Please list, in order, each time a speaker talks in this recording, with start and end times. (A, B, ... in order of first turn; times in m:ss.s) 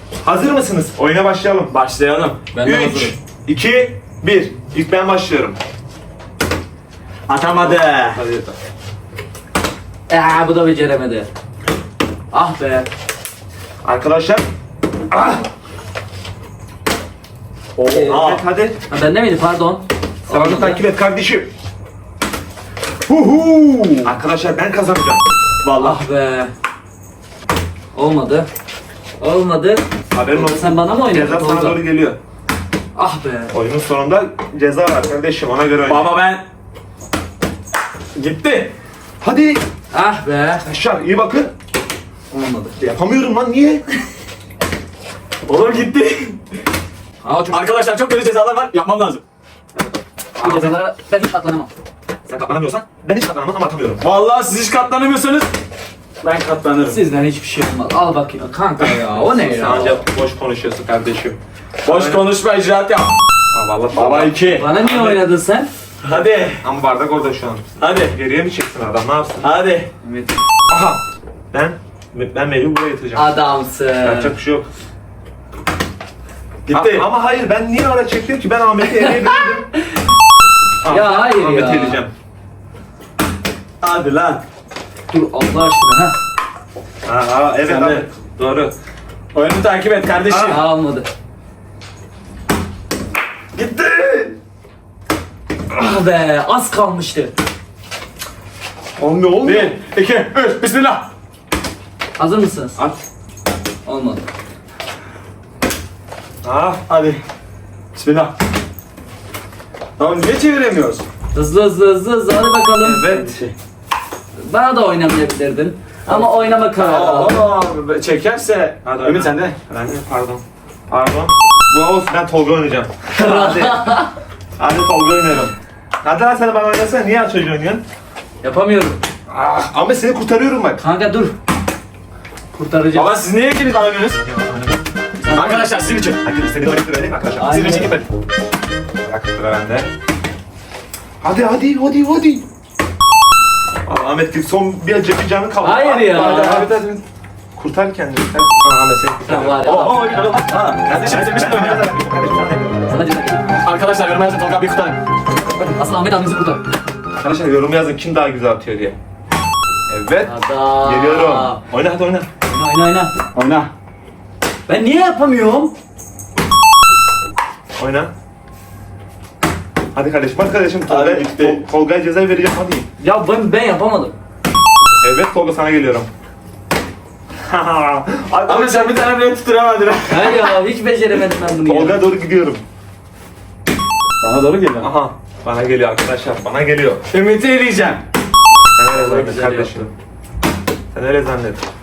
0:00.2-0:01.7 A
0:01.7-0:02.4 B
0:02.5-0:03.1 C
0:02.6-0:05.6 A
0:07.3-0:08.2 B
0:07.6-0:08.6 A
0:10.1-0:11.3 C
0:12.3-0:12.9 C
0:13.8-0:14.4 A
0:17.8-0:18.4 B
0:17.9-0:18.2 C
0:18.0-0:18.8 A
0:18.9-0:20.8 C
0:20.3-0:21.5 A
0:23.0-0:24.1 B
0:24.0-0:25.2 A
0:25.6-0:26.0 B
0:25.8-0:26.5 C
0:27.9-0:28.5 C
0:29.2-0:31.8 C
0:30.1-0:32.2 A
0:33.0-0:33.5 C
0:33.5-0:36.1 A
0:35.9-0:36.4 B
0:38.2-0:38.7 B
0:39.2-0:39.6 A
0:39.9-0:40.6 C
0:40.6-0:41.5 A
0:42.3-0:42.7 C
0:42.8-0:43.8 A
0:45.5-0:46.4 B
0:47.2-0:47.6 C
0:47.5-0:49.2 B
0:49.8-0:50.8 A
0:50.4-0:51.7 C
0:52.2-0:54.0 A
0:54.0-0:55.5 B
0:56.2-0:57.0 B
0:56.9-1:00.0 C
0:59.2-1:02.3 A
1:01.8-1:03.2 B
1:03.5-1:04.4 A
1:03.9-1:05.1 B
1:04.5-1:05.7 C
1:06.0-1:06.6 B
1:06.6-1:09.5 A
1:07.8-1:08.1 B
1:09.4-1:09.9 B
1:10.0-1:10.4 C
1:10.7-1:11.0 A
1:11.5-1:13.4 A
1:13.1-1:14.3 C
1:14.0-1:14.7 A
1:16.7-1:17.1 B
1:16.7-1:19.7 A
1:19.0-1:19.6 C
1:20.8-1:22.1 A
1:20.9-1:22.0 C
1:23.8-1:24.4 B
1:25.1-1:26.1 C
1:27.0-1:28.7 A
1:27.6-1:28.0 B
1:29.3-1:30.6 B
1:30.3-1:30.5 A
1:30.4-1:31.1 C
1:33.6-1:34.4 B
1:35.7-1:37.3 C
1:39.0-1:39.8 A
1:39.4-1:41.1 B
1:42.2-1:42.8 C
1:42.8-1:43.0 A
1:43.8-1:44.2 C
1:46.4-1:46.8 A
1:46.9-1:47.2 B
1:47.9-1:48.3 B
1:50.0-1:51.0 B
1:51.3-1:53.3 C
1:52.8-1:53.4 A
1:54.4-1:57.5 C
1:56.1-1:59.6 B
1:58.8-2:04.0 A
2:03.1-2:04.1 C
2:04.6-2:07.8 A
2:08.4-2:09.0 C
2:09.3-2:10.8 A
2:10.8-2:11.3 C
2:12.5-2:13.2 C
2:12.9-2:14.2 B
2:14.2-2:14.8 A
2:15.2-2:15.7 C
2:15.3-2:16.2 B
2:16.2-2:17.9 A
2:17.4-2:18.0 B
2:19.0-2:19.9 A
2:21.2-2:22.4 A
2:23.8-2:26.8 A
2:25.6-2:26.7 C
2:26.0-2:27.0 B
2:27.6-2:30.2 A
2:29.3-2:30.4 C
2:29.6-2:31.9 B
2:30.8-2:32.9 A
2:32.9-2:33.6 C
2:33.6-2:35.0 B
2:35.6-2:36.6 C
2:37.2-2:39.0 A
2:39.9-2:42.3 A
2:40.2-2:41.6 C
2:42.5-2:43.1 C
2:43.3-2:43.7 B
2:44.7-2:45.7 C
2:47.8-2:48.1 A
2:49.9-2:52.9 A
2:50.9-2:51.6 B
2:53.0-2:54.1 C
2:55.0-2:56.1 A
2:57.4-2:59.0 A
2:58.4-3:00.6 B
3:00.1-3:02.1 C
3:01.6-3:02.6 A
3:04.2-3:04.9 B
3:04.8-3:07.0 A
3:07.1-3:08.0 B
3:08.7-3:09.9 A
3:08.9-3:09.9 C
3:10.9-3:11.6 A